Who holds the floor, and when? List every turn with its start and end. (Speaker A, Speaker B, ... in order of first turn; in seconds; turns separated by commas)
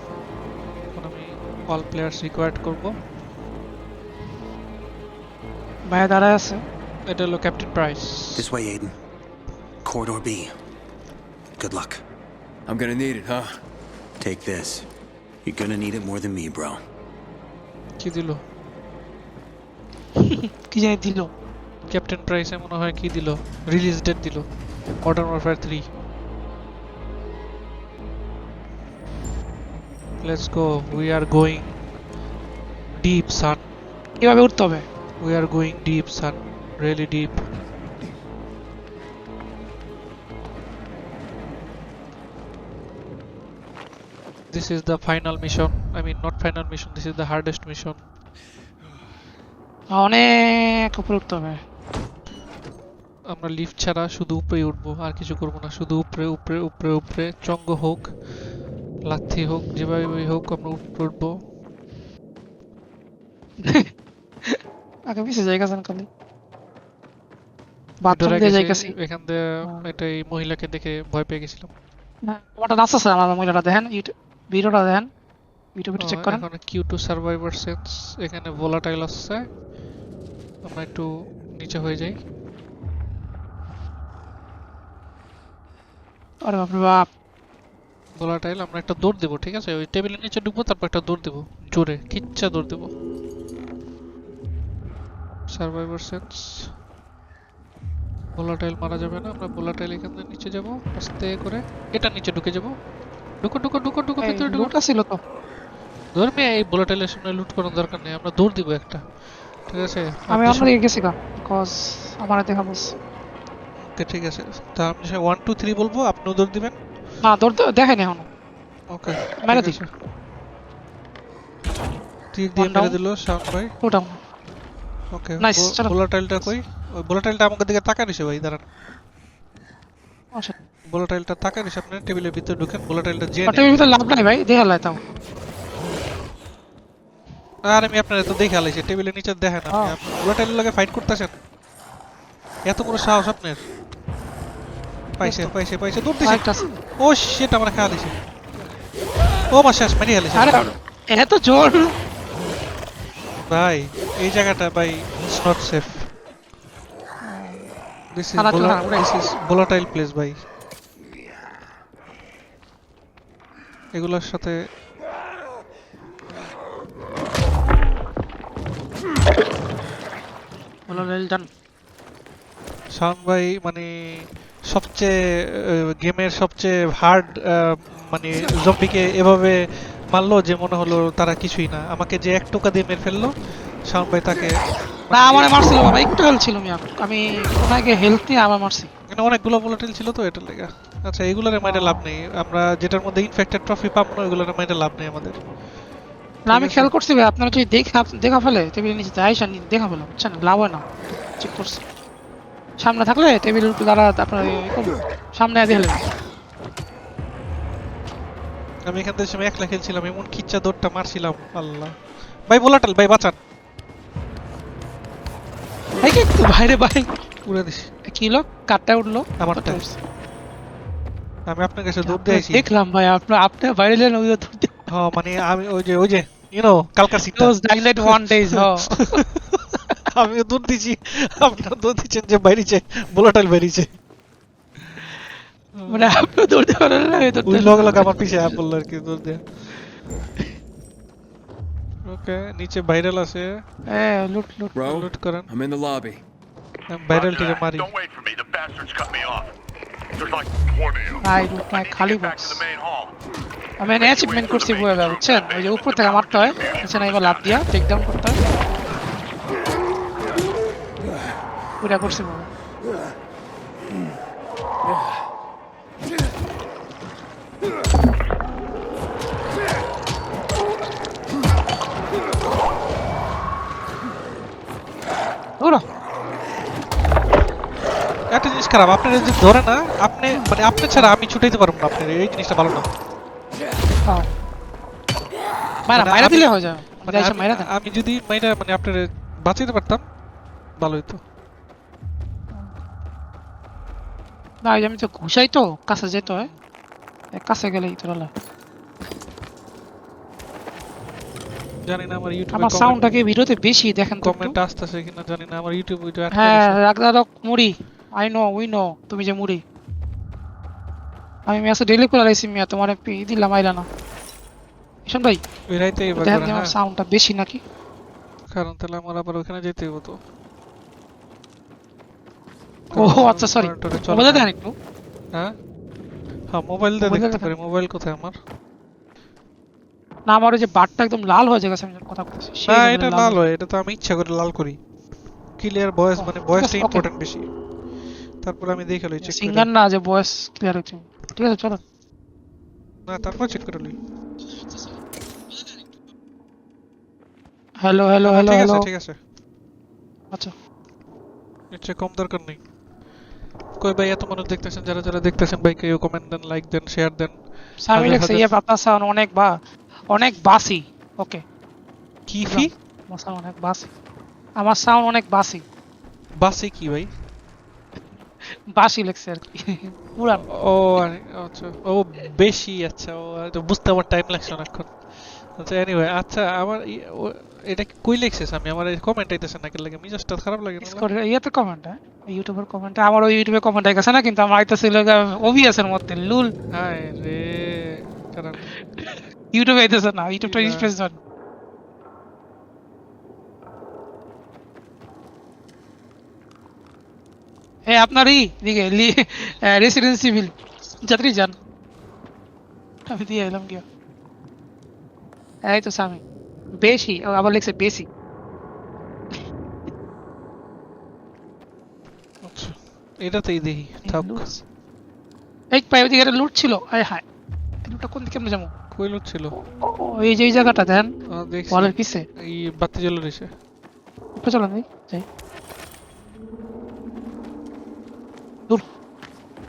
Speaker A: 0.9-3.0, Speaker B: 5.9-6.6, Speaker A: 7.1-8.4, Speaker C: 8.3-9.0, Speaker C: 9.8-10.6, Speaker C: 11.6-12.0, Speaker D: 12.7-13.6, Speaker C: 14.2-14.9, Speaker C: 15.4-16.8, Speaker A: 18.0-18.4, Speaker B: 20.3-21.3, Speaker A: 21.9-24.5, Speaker A: 25.0-25.9, Speaker A: 30.2-31.8, Speaker A: 33.0-33.7, Speaker B: 34.2-34.9, Speaker A: 35.2-37.5, Speaker A: 44.5-48.0, Speaker B: 49.9-51.6, Speaker A: 53.3-58.1, Speaker A: 59.1-61.4, Speaker B: 63.6-63.9, Speaker B: 64.4-66.1, Speaker B: 68.0-69.0, Speaker A: 68.1-71.7, Speaker B: 72.2-75.1, Speaker B: 75.8-76.5, Speaker A: 76.0-79.5, Speaker A: 80.6-82.2, Speaker B: 86.4-87.1, Speaker A: 88.2-92.9, Speaker A: 95.5-96.7, Speaker A: 98.4-102.8, Speaker A: 103.4-104.7, Speaker B: 104.2-105.2, Speaker A: 106.2-109.0, Speaker A: 109.7-110.7, Speaker B: 110.3-112.9, Speaker A: 113.8-116.8, Speaker B: 117.2-118.3, Speaker A: 118.9-119.9, Speaker B: 119.4-119.8, Speaker A: 122.3-123.7, Speaker B: 122.5-123.0, Speaker B: 123.8-124.2, Speaker A: 125.1-128.6, Speaker B: 125.4-126.0, Speaker A: 130.9-133.8, Speaker B: 133.4-135.0, Speaker A: 137.6-141.3, Speaker B: 139.7-140.0, Speaker A: 142.7-143.7, Speaker A: 145.2-146.5, Speaker B: 145.2-145.5, Speaker B: 146.2-146.6, Speaker A: 147.0-148.2, Speaker A: 149.5-150.6, Speaker B: 150.3-151.9, Speaker A: 153.4-156.1, Speaker B: 157.2-157.7, Speaker A: 158.1-160.4, Speaker B: 158.3-159.1, Speaker A: 163.9-164.6, Speaker B: 170.9-171.5, Speaker A: 172.9-175.2, Speaker A: 175.9-183.3, Speaker A: 183.9-184.5, Speaker A: 185.1-185.5, Speaker B: 185.1-188.9, Speaker A: 189.1-195.4, Speaker B: 191.6-192.0, Speaker B: 196.5-200.8, Speaker A: 196.5-196.9, Speaker B: 201.4-201.8, Speaker B: 202.8-206.0, Speaker A: 208.8-213.4, Speaker B: 216.0-217.1, Speaker A: 217.4-217.9, Speaker B: 218.1-220.0, Speaker A: 219.4-219.8, Speaker A: 221.5-222.7, Speaker B: 222.0-224.9, Speaker A: 224.9-233.9, Speaker B: 227.3-229.2, Speaker A: 235.7-236.1, Speaker B: 235.9-238.2, Speaker A: 237.4-239.4, Speaker A: 242.0-243.6, Speaker B: 243.9-244.7, Speaker D: 244.7-246.2, Speaker A: 244.8-245.5, Speaker A: 246.9-247.9, Speaker E: 247.1-249.5, Speaker E: 250.2-253.1, Speaker B: 251.2-252.7, Speaker B: 253.8-258.4, Speaker E: 254.0-257.6, Speaker B: 261.8-262.5, Speaker A: 278.3-282.9, Speaker B: 285.9-287.7, Speaker A: 286.0-290.0, Speaker A: 290.8-291.2, Speaker B: 294.6-296.5, Speaker A: 296.2-296.6, Speaker B: 297.3-298.3, Speaker A: 301.9-303.2, Speaker B: 302.5-304.6, Speaker A: 304.2-306.8, Speaker B: 306.3-309.6, Speaker B: 311.5-313.9, Speaker B: 315.1-315.4, Speaker A: 315.7-316.7, Speaker B: 316.2-317.6, Speaker A: 318.5-320.2, Speaker A: 322.9-324.5, Speaker B: 322.9-324.8, Speaker A: 326.5-328.4, Speaker B: 327.0-327.5, Speaker B: 330.3-333.5, Speaker A: 332.7-334.8, Speaker A: 335.6-337.5, Speaker B: 336.2-337.1, Speaker A: 338.4-339.7, Speaker B: 339.2-341.8, Speaker A: 343.1-344.0, Speaker B: 347.8-348.9, Speaker A: 348.2-349.2, Speaker A: 351.7-352.6, Speaker A: 353.8-358.5, Speaker B: 357.8-359.6, Speaker B: 360.1-361.4, Speaker A: 362.3-362.7, Speaker B: 362.4-363.9, Speaker B: 364.6-365.6, Speaker A: 366.4-367.1, Speaker B: 368.4-370.5, Speaker A: 370.5-375.0, Speaker A: 375.6-381.1, Speaker B: 380.8-386.5, Speaker A: 386.7-388.7, Speaker B: 388.7-391.2, Speaker A: 390.4-390.9, Speaker B: 397.9-401.6, Speaker B: 403.1-403.9, Speaker B: 405.6-406.2, Speaker B: 406.7-408.1, Speaker A: 412.4-414.4, Speaker B: 414.0-414.6, Speaker B: 415.7-417.2, Speaker B: 417.9-418.7, Speaker A: 418.9-419.6, Speaker B: 419.6-421.1, Speaker A: 421.3-423.5, Speaker B: 421.7-422.2, Speaker B: 424.4-425.2